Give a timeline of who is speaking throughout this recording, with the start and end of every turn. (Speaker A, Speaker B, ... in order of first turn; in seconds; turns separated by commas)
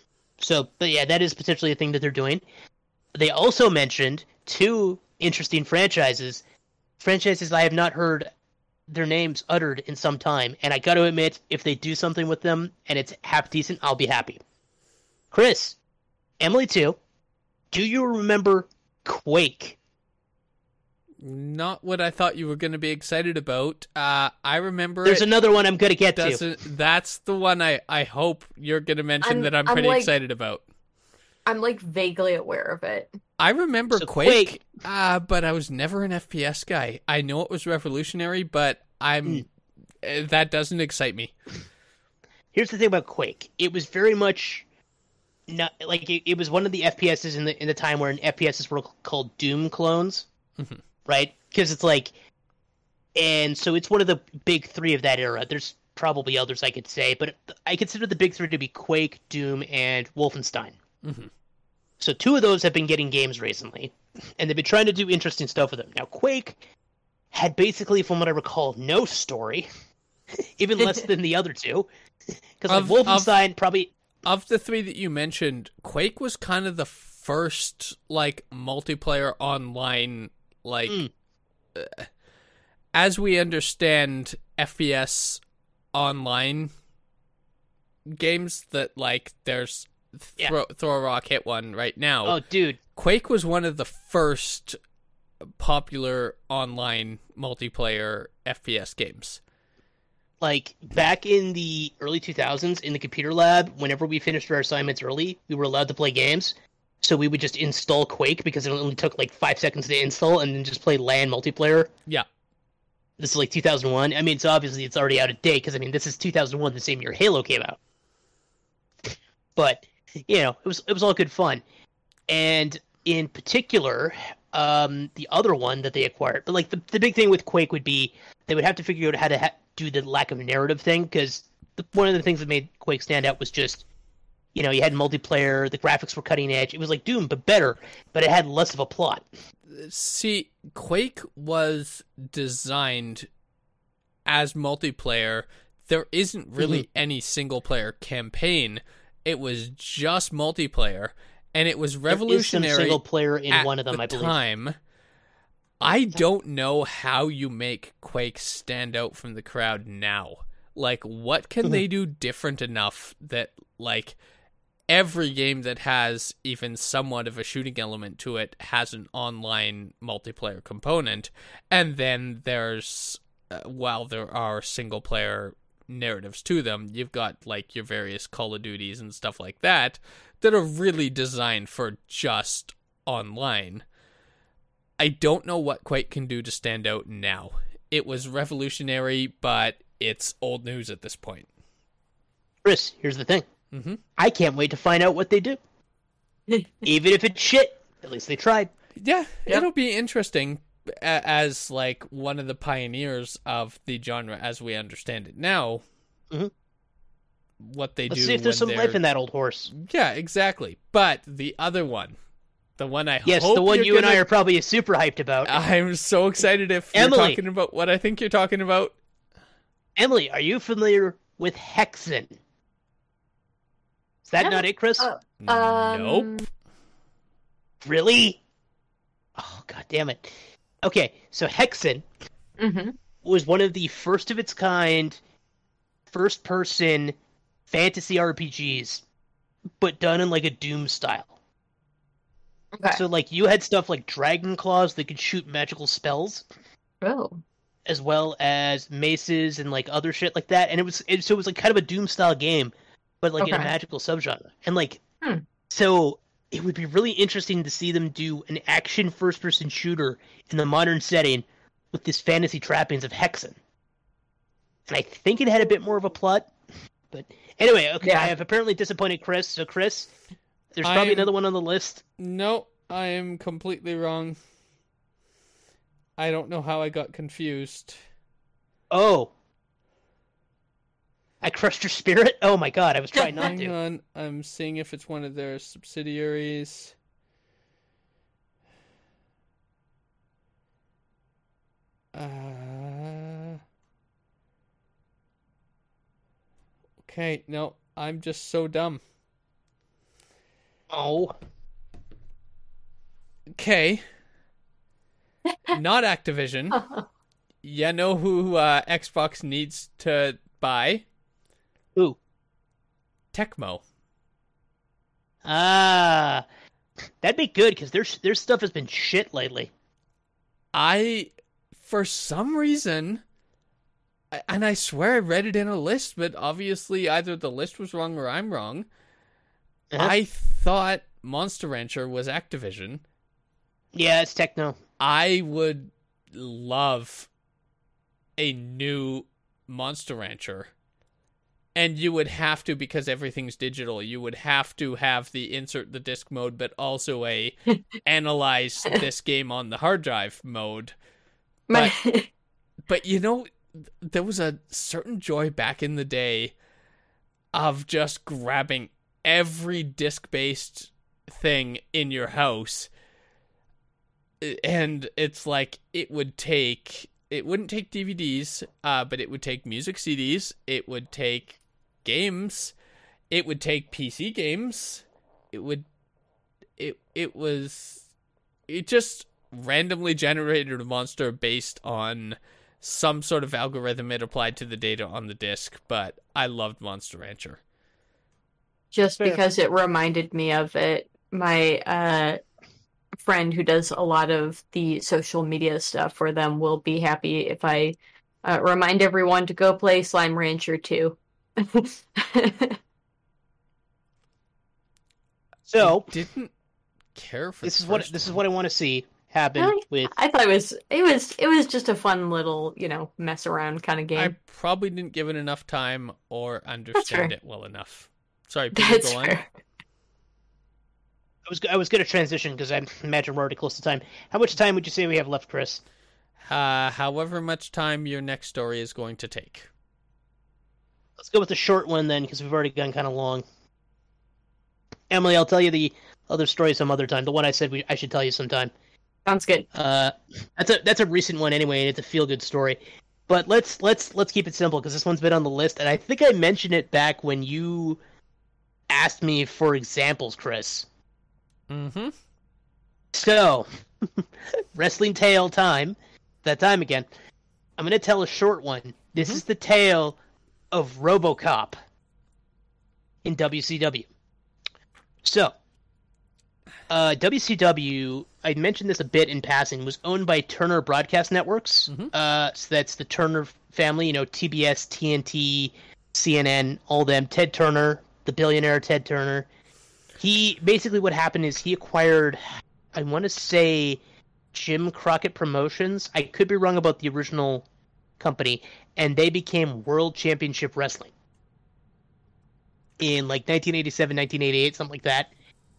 Speaker A: 0.4-2.4, Speaker A: 3.1-6.4, Speaker A: 7.0-8.3, Speaker A: 8.9-14.4, Speaker A: 15.3-15.8, Speaker A: 16.4-17.0, Speaker A: 17.7-19.8, Speaker B: 21.2-25.2, Speaker A: 25.0-26.4, Speaker B: 26.2-30.6, Speaker C: 29.2-30.1, Speaker C: 31.5-33.1, Speaker B: 33.4-39.5, Speaker A: 33.9-34.6, Speaker B: 40.0-41.3, Speaker A: 42.5-44.6, Speaker A: 45.5-50.3, Speaker A: 51.1-52.1, Speaker A: 53.2-60.8, Speaker B: 61.0-61.3, Speaker A: 62.0-66.6, Speaker A: 67.3-69.7, Speaker A: 70.6-71.9, Speaker A: 72.6-73.9, Speaker B: 72.7-73.3, Speaker B: 74.2-81.0, Speaker B: 81.8-82.1, Speaker B: 82.9-85.4, Speaker B: 85.9-86.7, Speaker B: 88.1-92.4, Speaker A: 92.2-92.8, Speaker B: 93.0-94.8, Speaker B: 95.4-99.4, Speaker A: 100.4-111.9, Speaker A: 113.2-117.8, Speaker A: 119.0-121.6, Speaker A: 122.3-133.8, Speaker A: 134.6-139.2, Speaker B: 139.7-143.3, Speaker B: 144.3-153.0, Speaker A: 152.1-154.4, Speaker B: 153.5-154.8, Speaker B: 155.8-164.2, Speaker B: 164.9-183.8, Speaker B: 185.0-191.5, Speaker A: 192.6-193.4, Speaker B: 193.7-194.0, Speaker A: 194.2-195.6, Speaker A: 196.8-198.7, Speaker B: 199.0-205.8, Speaker B: 207.6-209.0, Speaker A: 208.1-209.7, Speaker B: 209.7-212.2, Speaker B: 212.8-214.2, Speaker A: 213.3-215.6, Speaker B: 215.5-219.0, Speaker A: 216.9-217.4, Speaker A: 220.0-222.4, Speaker A: 224.3-225.1, Speaker C: 224.4-226.5, Speaker B: 225.4-226.3, Speaker A: 227.8-228.4, Speaker A: 229.4-230.3, Speaker A: 230.8-232.0, Speaker C: 232.6-232.9, Speaker A: 233.2-235.2, Speaker A: 236.1-237.1, Speaker A: 237.7-239.0, Speaker A: 239.8-241.3, Speaker C: 242.8-243.0, Speaker A: 242.9-246.4, Speaker C: 247.0-247.4, Speaker A: 247.9-255.0, Speaker C: 253.4-253.7, Speaker A: 255.7-263.6, Speaker A: 264.9-266.5, Speaker A: 267.1-270.1, Speaker C: 268.0-268.3, Speaker A: 270.7-272.0, Speaker B: 270.8-271.3, Speaker B: 272.2-274.4, Speaker B: 276.2-278.0, Speaker A: 278.9-279.3, Speaker A: 281.4-283.7, Speaker B: 283.3-286.9, Speaker B: 292.1-293.6, Speaker B: 297.0-299.0, Speaker A: 300.9-301.4, Speaker B: 303.5-304.0, Speaker B: 305.7-306.8, Speaker C: 306.7-307.1, Speaker B: 307.6-311.1, Speaker B: 313.3-313.8, Speaker A: 315.4-316.4, Speaker A: 317.2-319.7, Speaker B: 320.7-323.2, Speaker B: 324.3-328.9, Speaker B: 330.0-333.0, Speaker A: 333.9-334.8, Speaker B: 335.0-337.3, Speaker B: 338.4-340.7, Speaker B: 341.8-350.9, Speaker C: 351.7-352.3, Speaker B: 352.9-356.6, Speaker B: 357.5-362.9, Speaker B: 364.4-372.7, Speaker B: 373.3-375.9, Speaker B: 376.8-378.1, Speaker B: 378.7-387.6, Speaker C: 388.9-392.4, Speaker C: 393.2-402.8, Speaker A: 405.7-406.1, Speaker B: 405.8-406.5, Speaker B: 407.1-408.2, Speaker A: 407.6-410.1, Speaker C: 409.6-414.4, Speaker B: 414.2-419.4, Speaker C: 417.0-417.3, Speaker C: 418.7-419.5, Speaker A: 421.5-425.8, Speaker B: 426.4-429.7, Speaker A: 431.2-433.4, Speaker A: 435.1-438.7, Speaker C: 439.3-439.7, Speaker A: 439.7-448.0, Speaker A: 448.9-450.9, Speaker B: 451.7-452.1, Speaker A: 453.1-457.1, Speaker A: 457.8-460.2, Speaker B: 459.2-459.4, Speaker A: 460.7-461.8, Speaker A: 463.2-464.1, Speaker A: 465.2-465.5, Speaker A: 466.9-479.5, Speaker A: 480.2-482.4, Speaker A: 482.9-484.0, Speaker A: 484.5-487.6, Speaker A: 488.2-491.1, Speaker A: 493.0-495.3